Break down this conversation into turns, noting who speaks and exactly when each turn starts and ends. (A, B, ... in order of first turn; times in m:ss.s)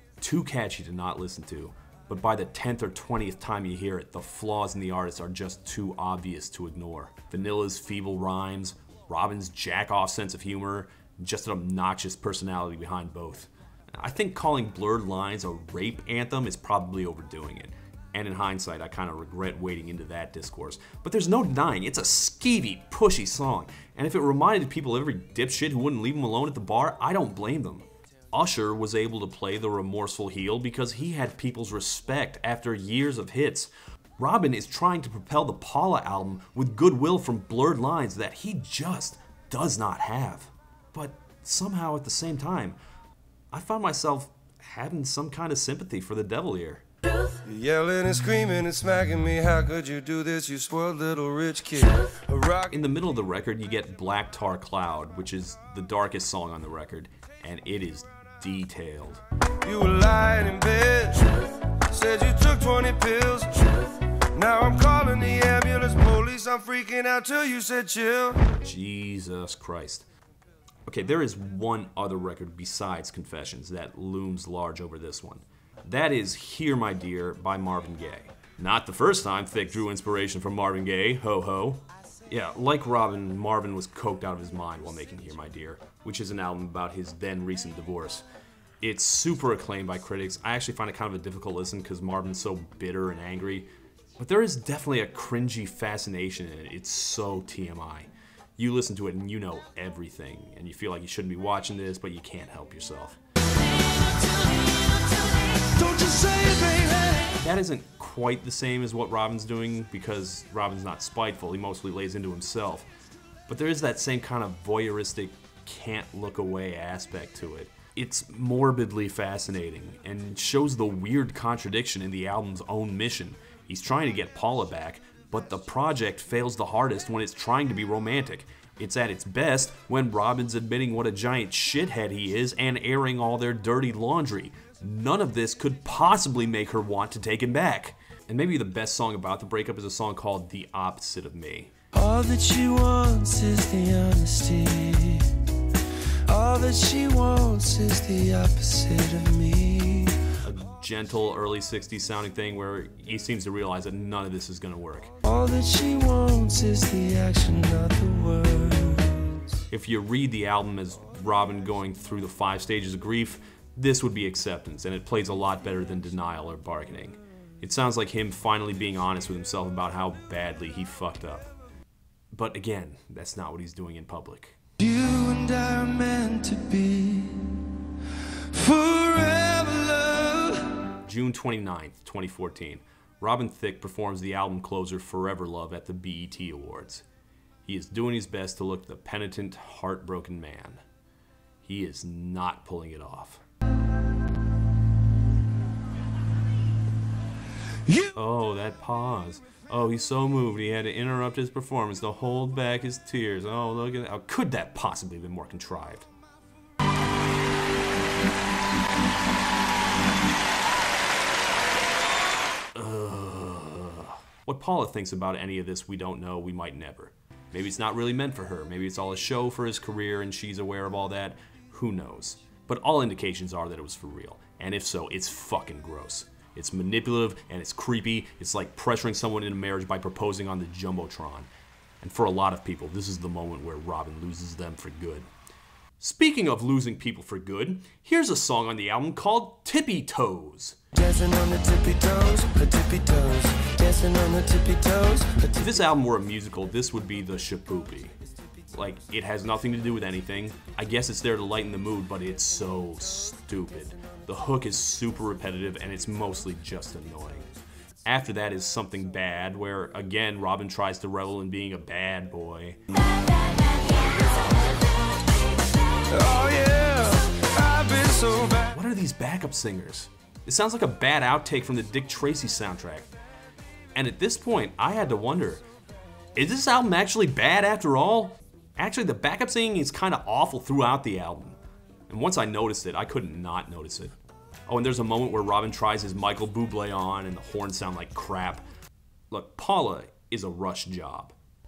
0:00.2-0:42.8 A
0:43.5-0:46.8 A
0:47.4-0:52.8 B
0:52.7-0:59.2 A
0:59.6-1:08.4 B
1:08.6-1:10.1 A
1:10.9-1:28.2 A
1:28.8-1:43.2 A
1:45.8-1:47.3 B
1:47.4-1:52.9 A
1:53.5-2:21.7 A
2:21.9-2:25.4 B
2:26.3-2:30.2 B
2:30.4-2:35.1 A
2:35.2-2:39.4 B
2:39.7-2:51.5 A
2:52.3-2:54.6 A
2:54.8-2:57.7 B
2:58.5-3:00.7 B
3:01.0-3:07.0 A
3:07.6-3:10.8 A
3:11.6-3:13.4 A
3:17.8-3:18.1 B
3:18.1-3:26.1 A
3:32.8-3:51.5 A
3:52.0-3:55.3 A
3:56.0-4:00.8 A
4:00.9-4:05.8 B
4:05.6-4:08.2 A
4:08.7-4:17.5 A
4:18.0-4:22.8 A
4:26.1-4:28.7 B
4:28.7-4:33.1 A
4:34.0-4:35.6 A
4:36.4-4:41.6 A
4:42.1-4:44.2 A
4:44.7-4:48.6 A
4:49.3-4:51.3 A